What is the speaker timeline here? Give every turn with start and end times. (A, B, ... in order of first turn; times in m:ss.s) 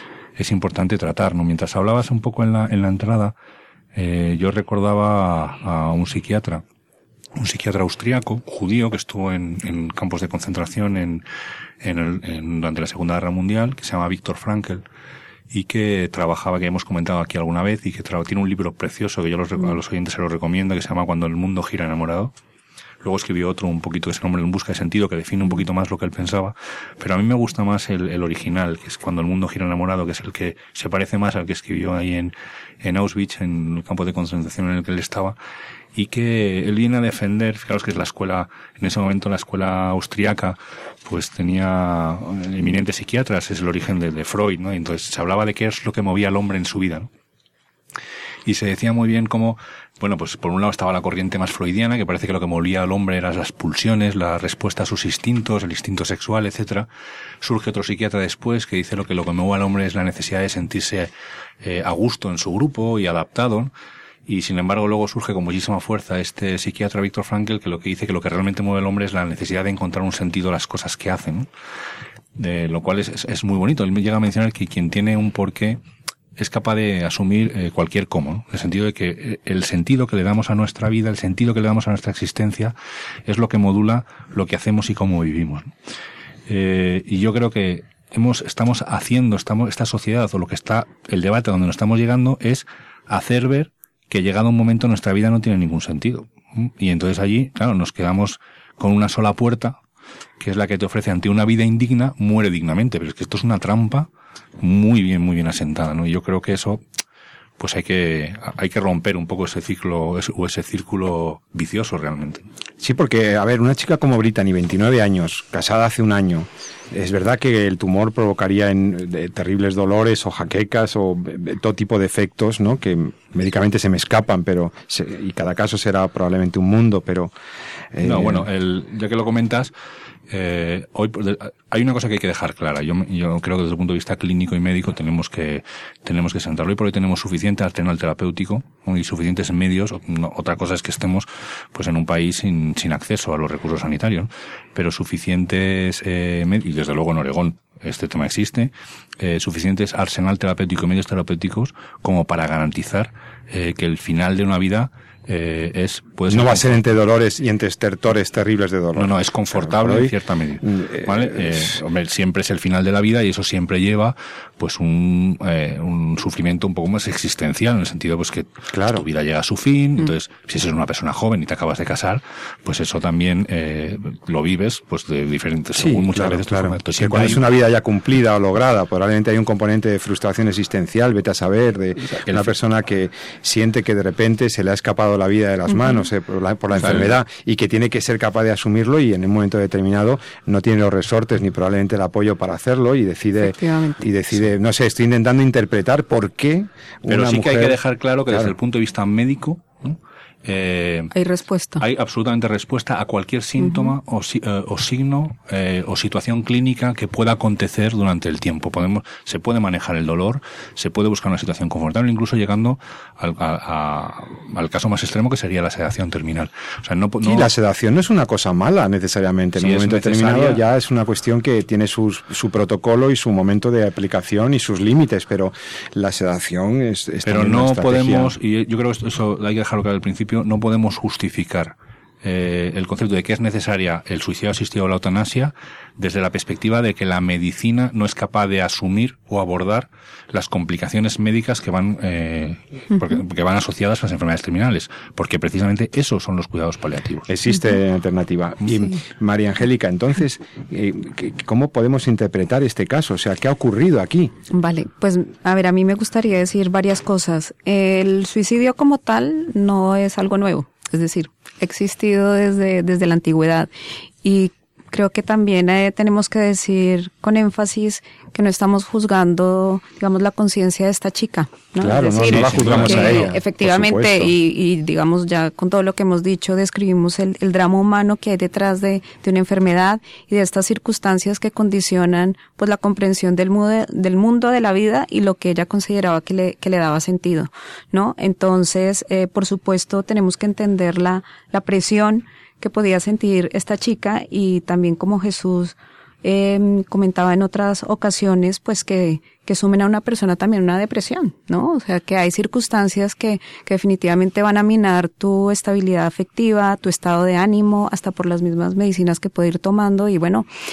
0:00.4-0:03.3 A
0:03.9-0:06.6 A
0:07.4-0:11.2 A
0:11.8-0:14.8 A
0:15.5-0:22.3 A
0:23.0-0:35.4 A
0:35.9-0:47.1 A
0:48.4-0:56.9 A
0:57.4-1:01.1 A
1:01.6-1:03.7 A
1:04.3-1:11.5 A
1:12.4-1:15.8 A
1:16.4-1:22.7 A
1:23.2-1:25.7 A
1:26.5-1:39.8 A
1:40.4-1:44.1 A
1:44.6-1:46.8 A
1:47.6-1:52.4 A
1:52.8-2:07.3 B
2:07.9-2:08.4 B
2:08.0-2:09.7 A
2:10.3-2:36.8 A
2:36.3-2:41.8 B
2:38.9-2:57.5 A
2:48.7-2:49.0 B
2:55.8-3:17.8 B
3:02.2-3:02.5 A
3:06.8-3:07.2 A
3:13.4-3:14.0 C
3:17.1-3:21.1 A
3:21.1-3:21.8 C
3:21.8-3:37.5 A
3:23.6-3:23.9 C
3:37.2-3:48.3 B
3:39.6-3:40.6 A
3:47.2-4:07.3 A
4:07.3-4:14.3 B
4:14.5-4:23.7 C
4:24.2-5:10.5 C
4:31.8-4:34.3 B
4:32.2-4:33.3 A